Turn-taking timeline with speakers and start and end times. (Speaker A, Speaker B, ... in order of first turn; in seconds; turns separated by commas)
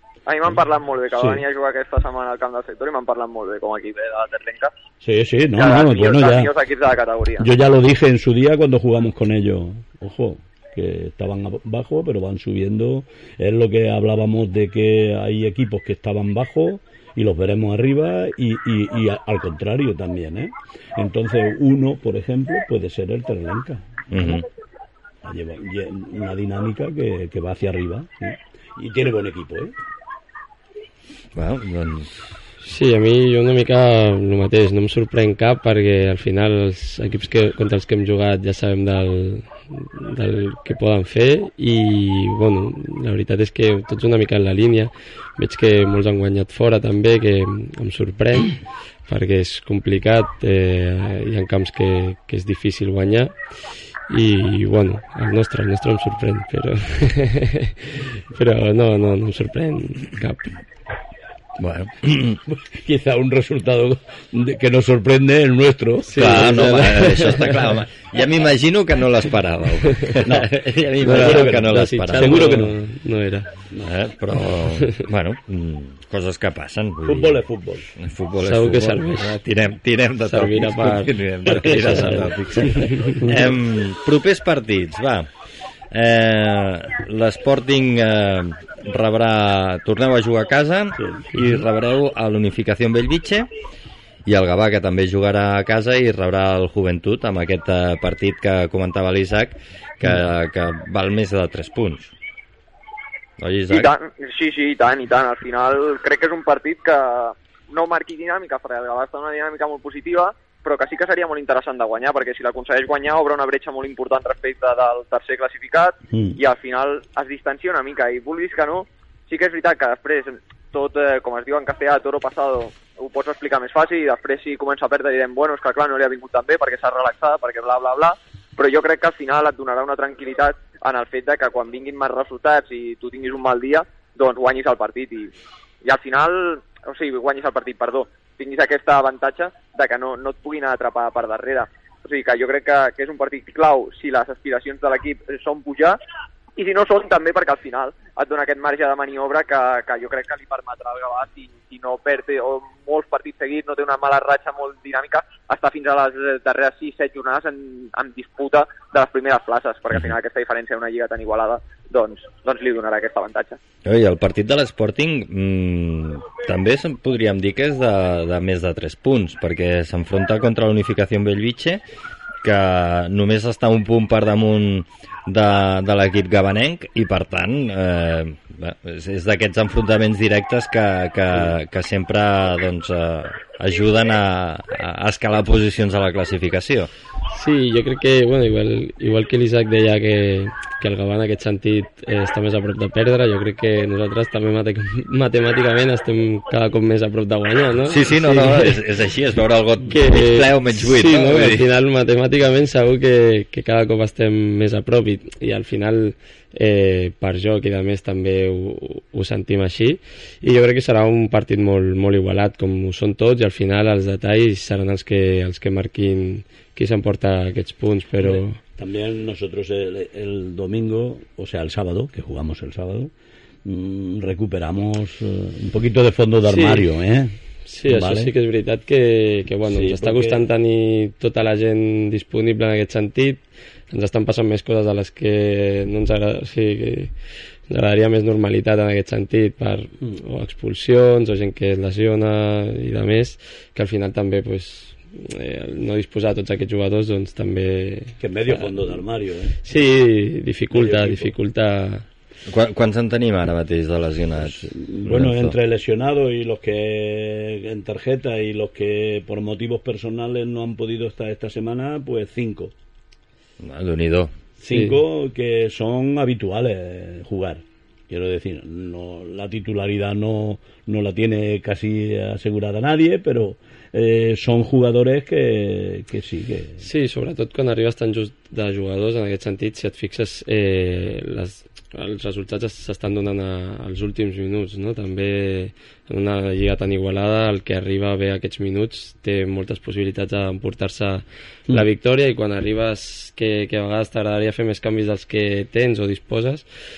Speaker A: 0.3-4.7, Speaker B: 1.1-1.4, Speaker B: 5.0-6.5, Speaker A: 5.5-7.5, Speaker B: 7.4-24.4, Speaker C: 24.1-24.4, Speaker B: 25.2-29.7, Speaker C: 31.4-32.3, Speaker D: 32.6-53.5, Speaker D: 54.1-60.5, Speaker C: 61.6-62.4, Speaker B: 62.5-67.4, Speaker D: 66.1-67.5, Speaker C: 66.1-72.7, Speaker B: 70.2-72.8, Speaker D: 71.0-73.5, Speaker C: 73.8-77.4, Speaker B: 77.0-77.9, Speaker C: 78.0-85.3, Speaker D: 78.4-79.4, Speaker D: 80.2-83.2, Speaker B: 81.5-83.5, Speaker C: 85.9-93.5, Speaker B: 91.0-91.2, Speaker C: 94.2-102.1, Speaker C: 103.4-103.9, Speaker A: 103.7-135.3, Speaker B: 116.1-116.4, Speaker A: 135.8-146.0, Speaker A: 146.6-163.6, Speaker C: 163.8-171.8, Speaker C: 172.4-186.9, Speaker D: 187.3-198.8, Speaker C: 197.9-201.6, Speaker D: 199.9-218.6, Speaker B: 218.2-223.1, Speaker B: 223.6-228.3, Speaker D: 226.4-226.9, Speaker D: 227.6-237.1, Speaker B: 229.7-230.4, Speaker D: 237.7-248.7, Speaker B: 248.2-249.6, Speaker D: 249.6-252.1, Speaker B: 250.7-251.3, Speaker C: 252.4-255.6, Speaker B: 254.4-262.7, Speaker C: 263.6-264.4, Speaker B: 264.6-276.8, Speaker D: 264.7-265.0, Speaker D: 276.8-296.6